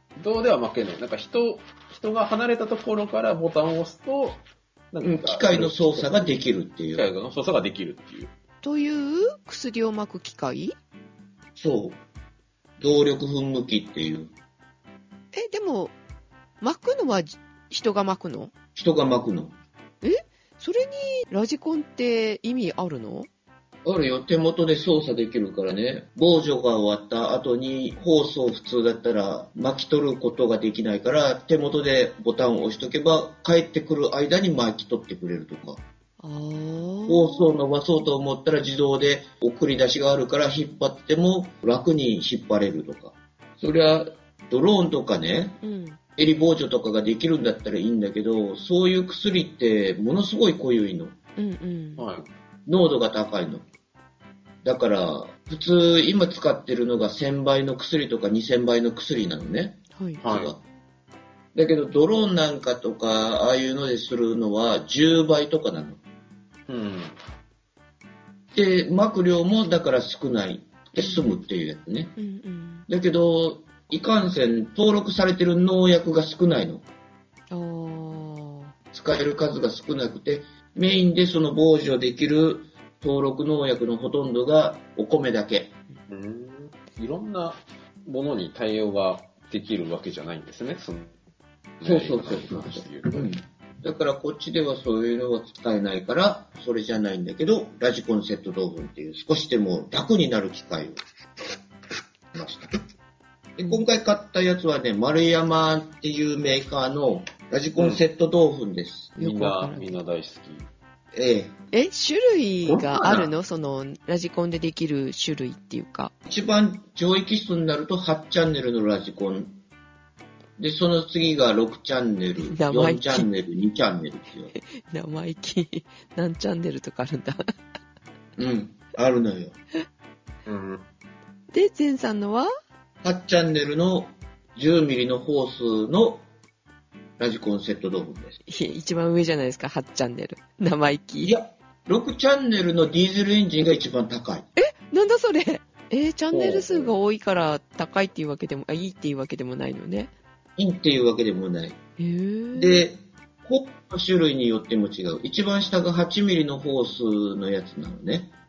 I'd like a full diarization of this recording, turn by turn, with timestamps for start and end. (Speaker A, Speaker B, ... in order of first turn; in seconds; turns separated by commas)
Speaker A: 0.2-4.4, Speaker A: 4.9-6.4, Speaker B: 5.0-7.0, Speaker A: 6.9-8.3, Speaker C: 8.6-10.8, Speaker B: 11.6-12.0, Speaker B: 12.8-14.3, Speaker C: 15.3-15.9, Speaker C: 16.6-18.5, Speaker B: 18.8-19.5, Speaker C: 20.0-23.3, Speaker B: 23.8-35.8, Speaker C: 36.2-37.5, Speaker B: 37.1-45.6, Speaker C: 45.6-46.0, Speaker B: 46.2-51.1, Speaker C: 51.4-52.0, Speaker A: 52.0-52.3, Speaker B: 52.6-53.6, Speaker B: 54.6-60.6, Speaker C: 59.9-60.2, Speaker A: 60.2-60.5, Speaker B: 61.5-66.0, Speaker A: 66.7-67.1, Speaker B: 68.5-72.1, Speaker C: 71.0-71.3, Speaker C: 72.2-72.8, Speaker B: 72.9-76.8, Speaker C: 77.5-78.7, Speaker B: 78.9-85.7, Speaker A: 86.1-91.2, Speaker A: 91.8-93.3, Speaker B: 91.8-101.0, Speaker B: 102.3-102.7, Speaker B: 103.6-109.1, Speaker A: 107.8-108.0, Speaker C: 109.2-110.0, Speaker A: 109.2-110.7, Speaker B: 111.1-111.5, Speaker C: 111.7-116.1, Speaker B: 112.6-113.3, Speaker B: 116.2-119.5, Speaker B: 120.6-124.5, Speaker C: 122.4-123.3, Speaker C: 124.5-127.4, Speaker B: 128.4-129.5, Speaker A: 130.4-130.8, Speaker C: 131.5-132.5, Speaker B: 133.0-136.2, Speaker B: 137.2-138.4, Speaker C: 138.5-141.3, Speaker B: 141.2-144.5, Speaker C: 144.6-150.1, Speaker A: 146.3-146.9, Speaker B: 150.6-151.8, Speaker C: 152.0-152.8, Speaker B: 152.5-158.3